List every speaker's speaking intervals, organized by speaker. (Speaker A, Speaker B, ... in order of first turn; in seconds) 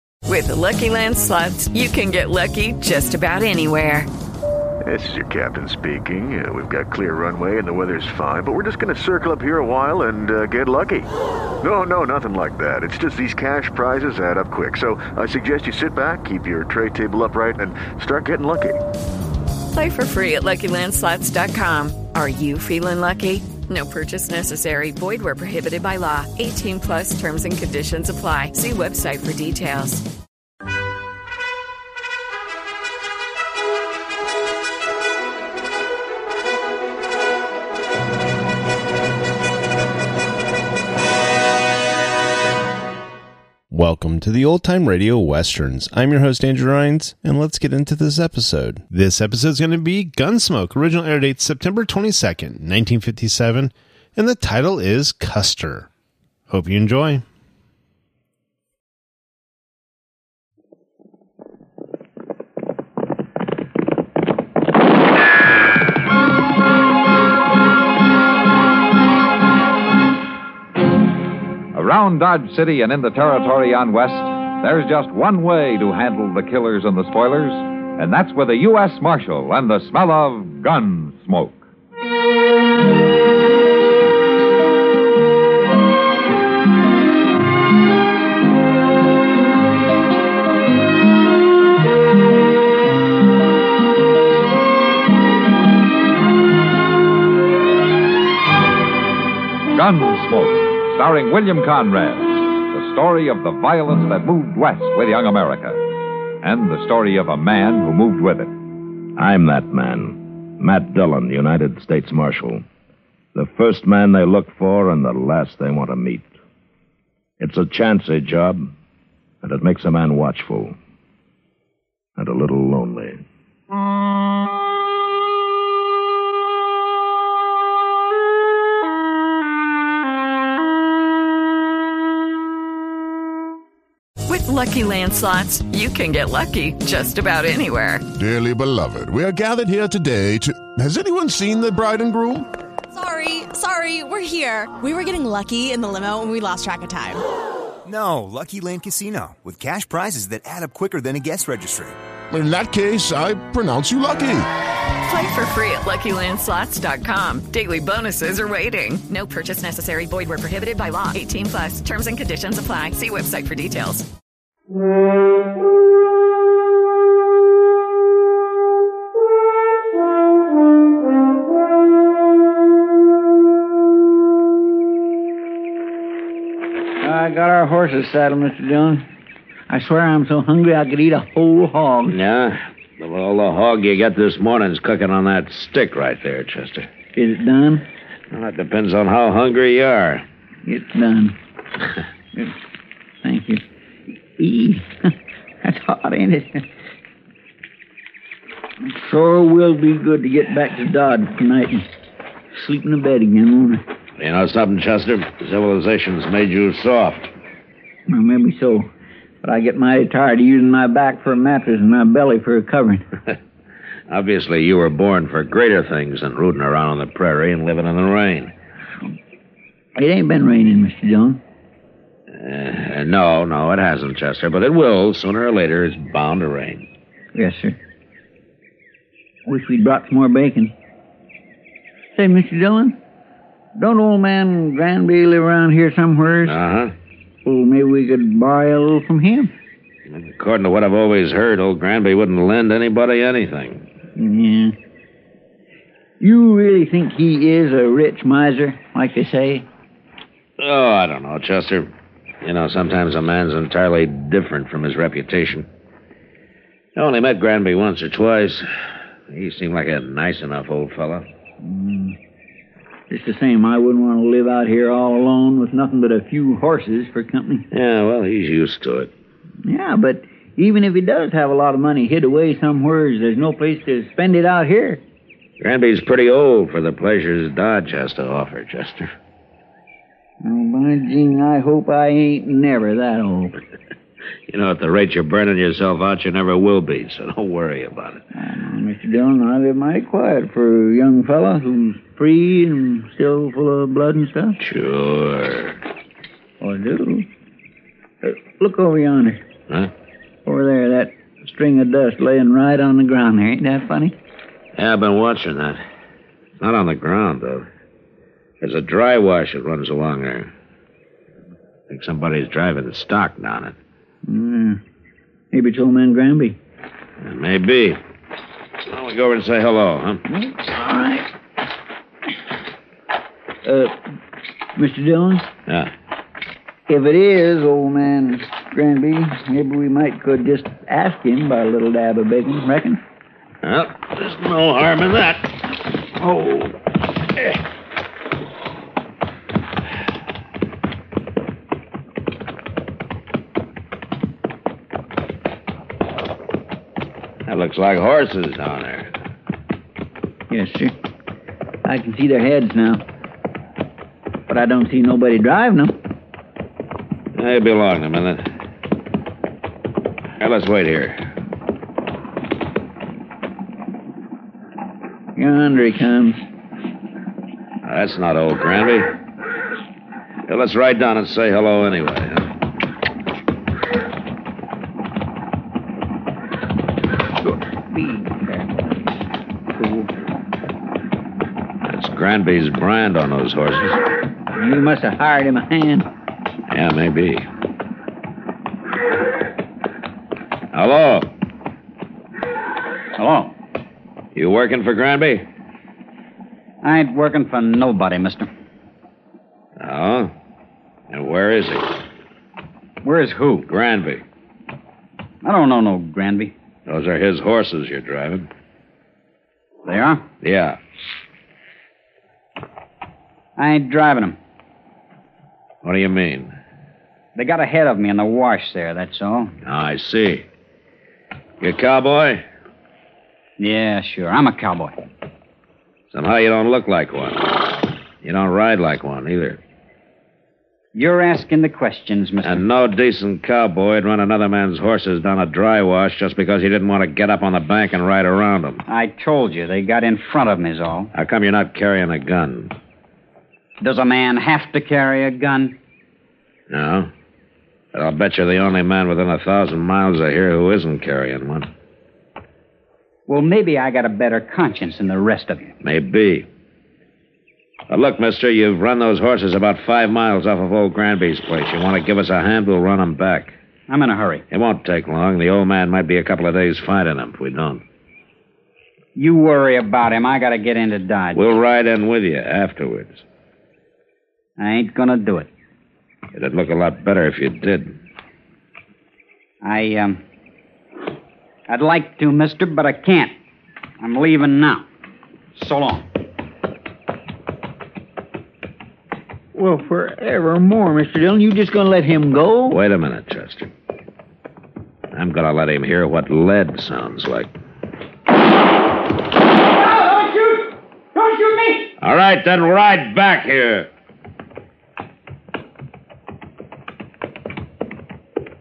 Speaker A: 0.3-4.1, 19.7-30.1, 134.3-138.1, 155.1-164.1
Speaker B: 4.8-11.1, 11.6-18.8
Speaker C: 43.7-55.9, 56.5-57.2
Speaker D: 71.7-81.6, 99.7-105.8, 106.4-108.5
Speaker E: 109.2-112.6, 113.3-116.3, 117.4-118.7, 119.4-120.8, 122.2-123.2, 182.1-186.9, 188.3-190.2, 204.2-207.3, 214.1-218.5, 222.3-226.9, 236.4-236.9, 240.1-243.8, 250.6-251.9, 252.4-255.7, 257.0-258.7, 259.3-261.2, 267.7-269.1, 275.6-279.1, 284.5-288.2, 294.6-295.8, 304.8-305.8, 306.6-307.7, 308.6-310.5, 311.9-313.8, 317.2-318.0, 318.9-320.2, 333.6-335.6, 336.2-336.8, 347.5-349.1, 357.4-358.5, 360.4-361.3, 367.8-369.1, 370.5-372.5, 381.9-384.0, 386.7-387.5, 390.7-391.3, 394.3-395.5, 399.8-400.3, 401.1-401.9, 403.7-404.2, 406.9-408.5, 410.4-410.8, 415.8-416.6, 419.6-420.5, 421.6-422.4, 426.1-429.6, 432.4-438.8, 441.1-442.7, 446.7-447.1, 447.9-451.7, 455.8-456.5, 457.9-463.5, 464.5-467.8, 471.3-473.2, 476.3-478.0, 492.7-493.7, 495.1-497.5, 502.0-503.9
Speaker F: 138.2-142.5, 152.3-154.5
Speaker G: 142.9-147.2
Speaker H: 147.8-152.0
Speaker I: 177.0-179.1, 179.7-182.2, 187.2-187.8, 190.7-191.4, 193.2-193.6, 194.4-195.1, 195.6-196.7, 198.9-201.9, 202.6-203.8, 208.1-208.9, 209.4-213.0, 220.0-221.4, 227.3-227.8, 229.5-230.7, 232.2-233.0, 233.8-236.6, 237.4-239.5, 244.2-244.8, 246.2-249.7, 261.6-262.2, 263.1-267.7, 269.6-275.0, 280.4-283.6, 288.3-294.6, 296.6-297.3, 298.2-299.4, 300.5-304.2, 314.2-314.8, 315.5-316.6, 320.3-321.3, 323.6-324.0, 324.8-325.5, 326.9-333.0, 350.5-350.9, 351.9-353.0, 354.5-355.9, 365.4-366.4, 377.4-379.1, 379.8-380.1, 384.6-386.1, 489.5-492.8
Speaker J: 393.2-393.5, 396.8-398.5, 403.0-403.7, 405.4-406.5, 409.9-410.2, 413.6-414.4, 417.4-419.5, 423.6-424.9, 430.9-432.6, 438.9-441.1, 443.8-445.8, 453.3-455.8, 463.9-464.4, 469.1-471.4, 474.6-475.5, 479.6-480.2, 481.7-483.3, 484.0-484.9, 485.6-486.1, 499.8-501.9